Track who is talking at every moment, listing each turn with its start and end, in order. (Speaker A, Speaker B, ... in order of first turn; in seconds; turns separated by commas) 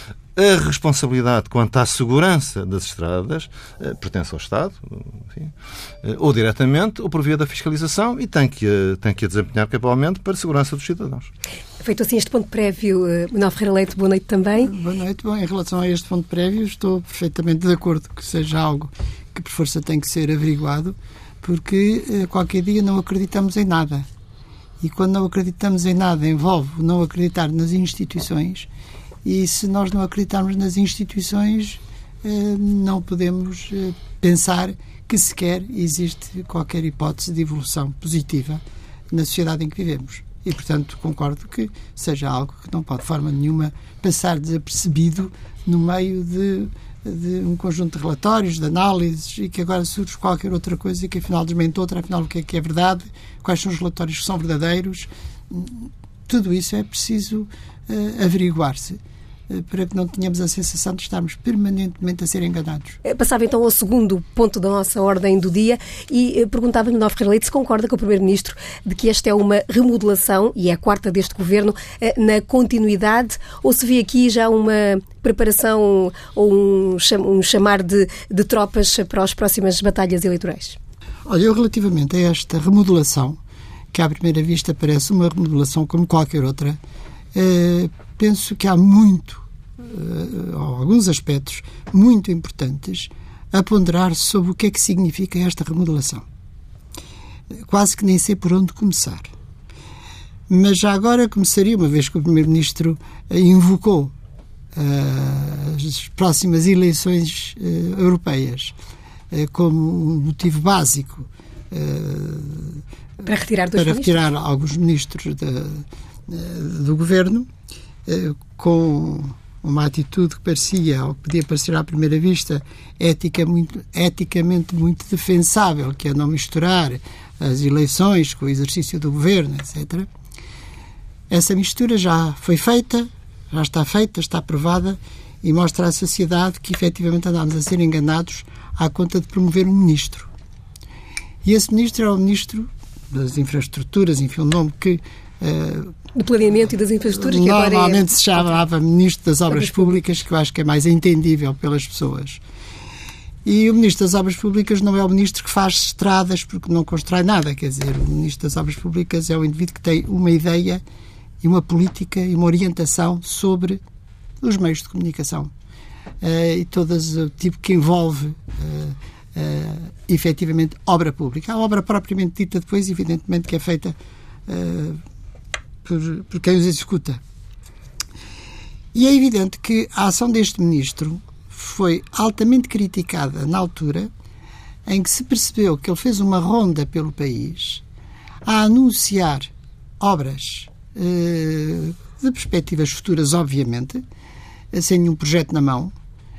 Speaker A: 0.3-11.3, Speaker B: 11.8-14.7, Speaker C: 14.6-24.1, Speaker C: 24.8-28.7, Speaker C: 29.2-63.0, Speaker B: 63.0-80.8, Speaker C: 81.2-83.4, Speaker C: 83.9-86.8, Speaker C: 87.3-96.2, Speaker C: 97.6-99.3, Speaker C: 100.5-104.1, Speaker C: 104.7-108.7, Speaker C: 109.3-112.8, Speaker B: 113.2-114.2, Speaker C: 113.7-117.5, Speaker C: 118.0-130.1, Speaker C: 131.3-140.3, Speaker C: 141.4-145.9, Speaker B: 146.1-148.1, Speaker C: 147.1-152.4, Speaker C: 153.4-160.8, Speaker C: 161.4-163.8, Speaker C: 164.4-165.5, Speaker C: 166.2-173.9, Speaker C: 174.5-175.0, Speaker C: 175.8-177.2, Speaker C: 178.9-184.1, Speaker C: 184.8-187.8, Speaker C: 188.4-194.0, Speaker C: 194.7-195.9